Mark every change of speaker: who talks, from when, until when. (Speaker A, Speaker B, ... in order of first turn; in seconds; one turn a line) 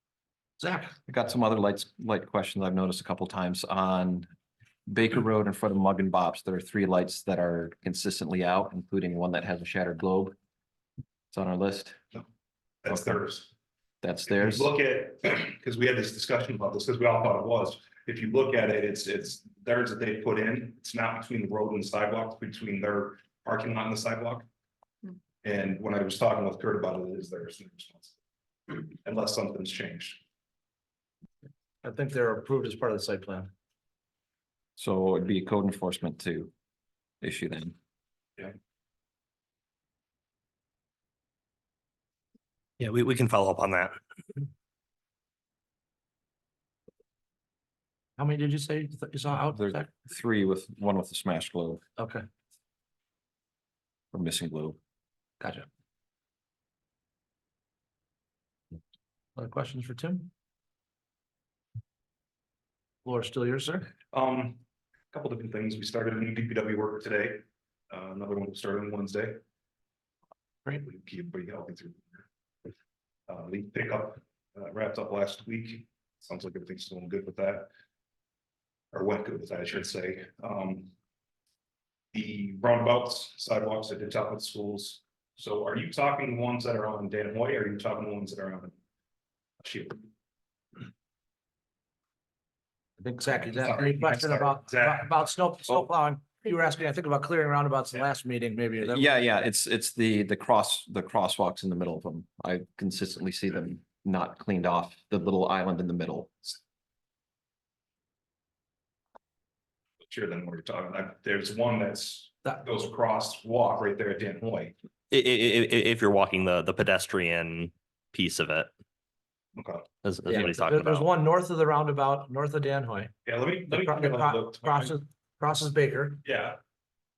Speaker A: 0.6-0.9
Speaker B: 1.1-4.3
Speaker B: 4.9-10.3
Speaker B: 11.3-12.0
Speaker C: 12.8-13.5
Speaker B: 12.9-13.2
Speaker B: 14.0-14.7
Speaker C: 14.3-24.5
Speaker C: 25.4-28.1
Speaker C: 28.7-30.2
Speaker A: 31.8-33.5
Speaker B: 34.8-36.5
Speaker B: 37.2-37.8
Speaker D: 42.8-44.0
Speaker A: 48.2-49.9
Speaker B: 49.5-51.8
Speaker A: 52.0-52.2
Speaker B: 54.1-54.8
Speaker A: 55.4-55.6
Speaker A: 59.4-60.3
Speaker A: 63.0-63.9
Speaker C: 64.1-69.4
Speaker C: 70.8-72.2
Speaker C: 73.3-77.7
Speaker C: 78.9-80.9
Speaker C: 82.1-88.7
Speaker C: 89.6-90.0
Speaker A: 93.0-99.1
Speaker C: 93.3-95.3
Speaker B: 98.8-106.5
Speaker C: 110.0-114.7
Speaker D: 115.1-118.7
Speaker C: 119.5-119.8
Speaker D: 120.0-121.1
Speaker A: 120.2-123.1
Speaker C: 123.2-124.9
Speaker A: 123.7-126.2
Speaker C: 126.2-126.6